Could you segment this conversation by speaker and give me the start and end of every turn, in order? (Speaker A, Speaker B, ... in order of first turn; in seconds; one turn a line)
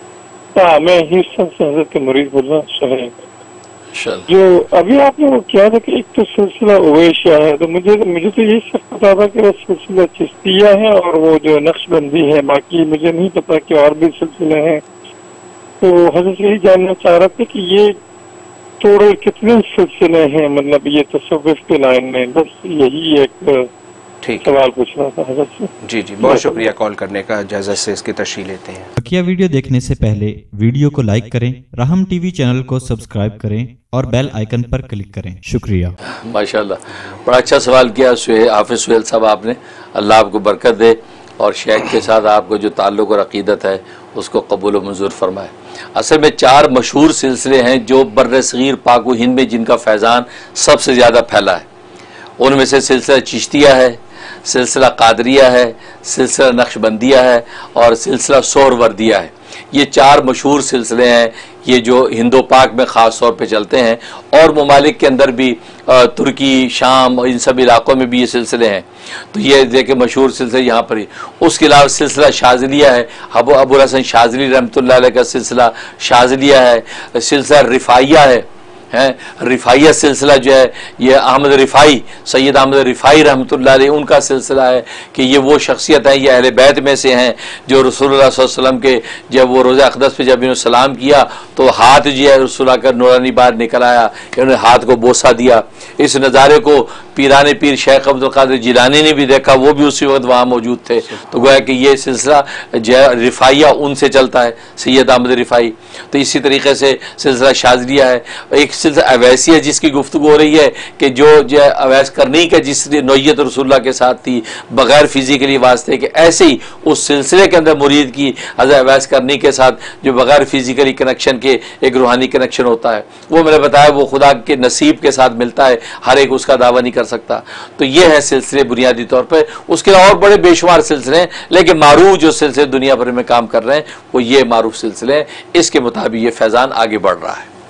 Speaker A: 0.5-3.1
Speaker B: 3.9-4.3
Speaker A: 4.3-14.8
Speaker A: 15.8-17.9
Speaker A: 18.8-23.7
Speaker C: 24.2-24.5
Speaker A: 24.4-26.6
Speaker C: 25.8-28.9
Speaker D: 29.0-35.9
Speaker B: 36.1-51.6
Speaker B: 52.4-137.5